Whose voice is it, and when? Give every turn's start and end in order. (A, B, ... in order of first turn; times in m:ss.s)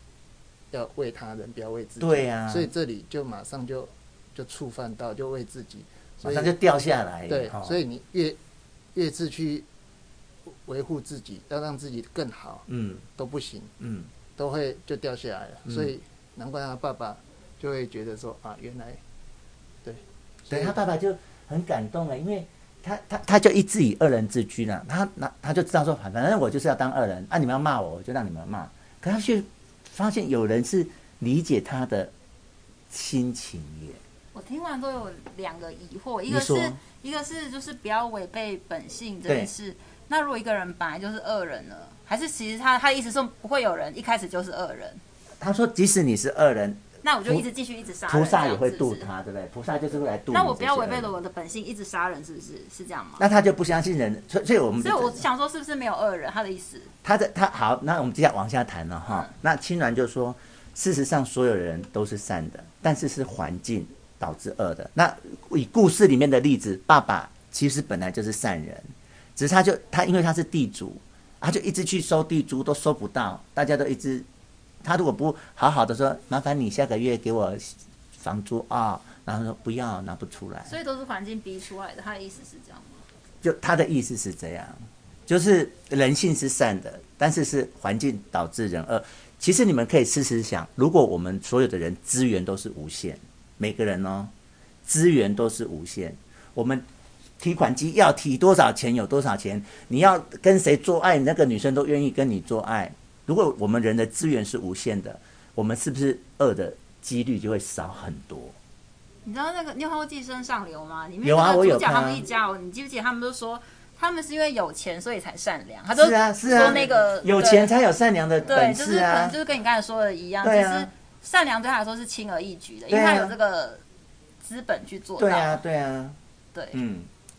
0:00.7-0:06.5 A
0:02.0-0:02.7 B
0:06.2-0:07.8 B
0:07.3-0:08.4 A
0:08.9-0:09.7 A
0:10.5-0:13.7 A
0:12.7-0:13.0 B
0:13.8-0:14.1 B
0:14.4-0:19.0 A
0:15.7-0:15.9 B
0:19.8-0:20.8 A
0:20.5-0:32.1 B
0:32.9-0:34.0 B
0:34.3-0:45.0 C
0:36.3-0:36.8 B
0:45.4-0:47.4 B
0:47.0-0:49.1 C
0:48.1-0:51.1 B
0:50.3-0:53.2 C
0:53.2-0:55.2 B
0:54.8-0:56.9 C
0:57.0-1:14.3 B
1:14.8-1:20.8 B
1:20.7-1:23.1 C
1:23.4-1:34.3 B
1:34.8-1:36.8 B
1:37.4-1:48.6 B
1:49.2-1:57.7 C
1:51.2-1:52.2 B
1:56.0-1:59.4 B
1:58.4-2:03.8 C
2:00.4-2:00.9 B
2:02.9-2:03.3 B
2:04.4-2:05.6 C
2:05.2-2:06.2 B
2:06.5-2:06.8 C
2:06.7-2:07.1 B